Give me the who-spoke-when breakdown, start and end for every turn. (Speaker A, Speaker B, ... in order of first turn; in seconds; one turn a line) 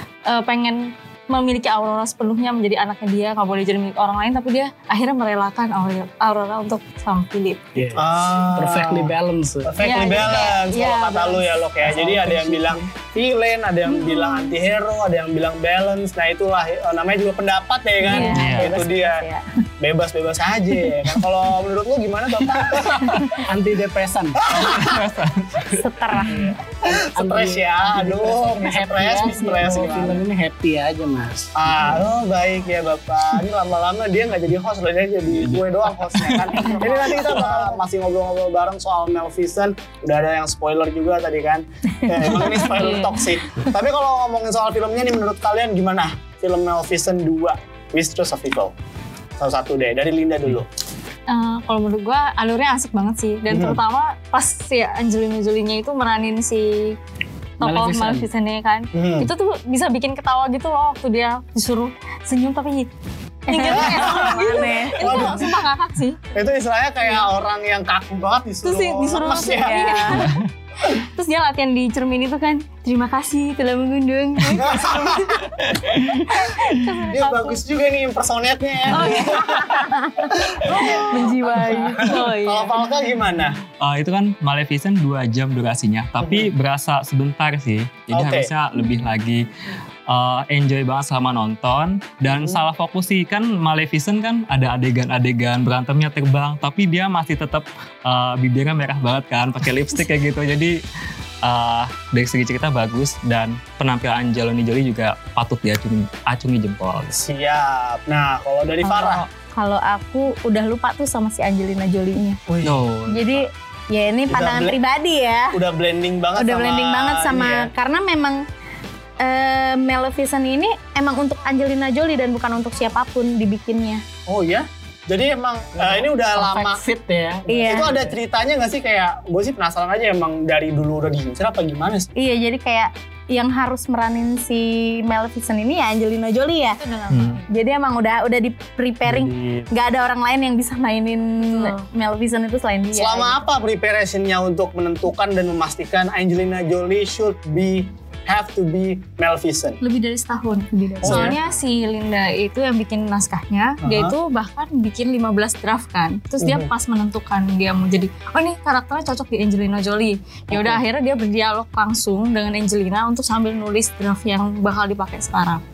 Speaker A: 0.3-7.8
Speaker B: 7.8-9.8
Speaker C: 7.9-19.2
Speaker A: 9.8-11.6
Speaker B: 11.8-12.9
Speaker A: 13.9-14.4
Speaker D: 18.0-19.4
Speaker E: 18.3-18.7
Speaker C: 19.8-23.2
Speaker E: 22.9-23.4
Speaker B: 23.4-24.5
Speaker C: 24.5-25.0
Speaker E: 24.5-25.8
Speaker D: 25.7-26.5
Speaker C: 26.6-30.2
Speaker B: 27.1-32.0
Speaker C: 31.5-48.7
Speaker B: 35.4-37.1
Speaker A: 42.6-43.2
Speaker C: 49.4-50.6
Speaker A: 51.3-57.0
Speaker C: 53.5-53.8
Speaker A: 57.6-62.9
Speaker B: 57.6-58.3
Speaker C: 58.9-59.3
Speaker D: 63.5-65.4
Speaker A: 63.5-66.2
Speaker C: 63.7-64.4
Speaker C: 65.0-65.5
Speaker C: 66.3-70.3
Speaker A: 68.6-70.3
Speaker D: 69.5-70.2
Speaker A: 70.8-77.6
Speaker C: 74.5-75.3
Speaker C: 76.9-79.8
Speaker A: 78.9-79.8
Speaker D: 79.1-82.2
Speaker C: 80.3-81.3
Speaker A: 81.0-82.9
Speaker C: 82.0-83.6
Speaker E: 83.8-89.5
Speaker C: 86.2-86.5
Speaker C: 88.1-88.5
Speaker E: 90.1-100.8
Speaker C: 92.2-92.6
Speaker E: 101.4-107.2
Speaker C: 107.1-109.2
Speaker D: 108.8-112.4
Speaker C: 112.5-112.8
Speaker E: 112.6-113.4
Speaker D: 113.1-115.6
Speaker C: 114.3-114.8
Speaker C: 115.5-117.7
Speaker D: 116.3-118.4
Speaker D: 119.2-124.0
Speaker C: 124.3-126.8
Speaker B: 125.8-128.1
Speaker D: 127.5-127.9
Speaker C: 127.5-132.1
Speaker D: 132.2-136.8
Speaker A: 136.6-137.5
Speaker E: 137.1-137.4
Speaker D: 137.5-143.4
Speaker E: 139.2-139.6
Speaker A: 141.4-141.8
Speaker C: 142.9-149.8
Speaker A: 149.8-165.6
Speaker D: 150.8-151.3
Speaker C: 151.0-151.5
Speaker C: 153.8-154.2
Speaker C: 156.4-156.7
Speaker C: 160.5-160.8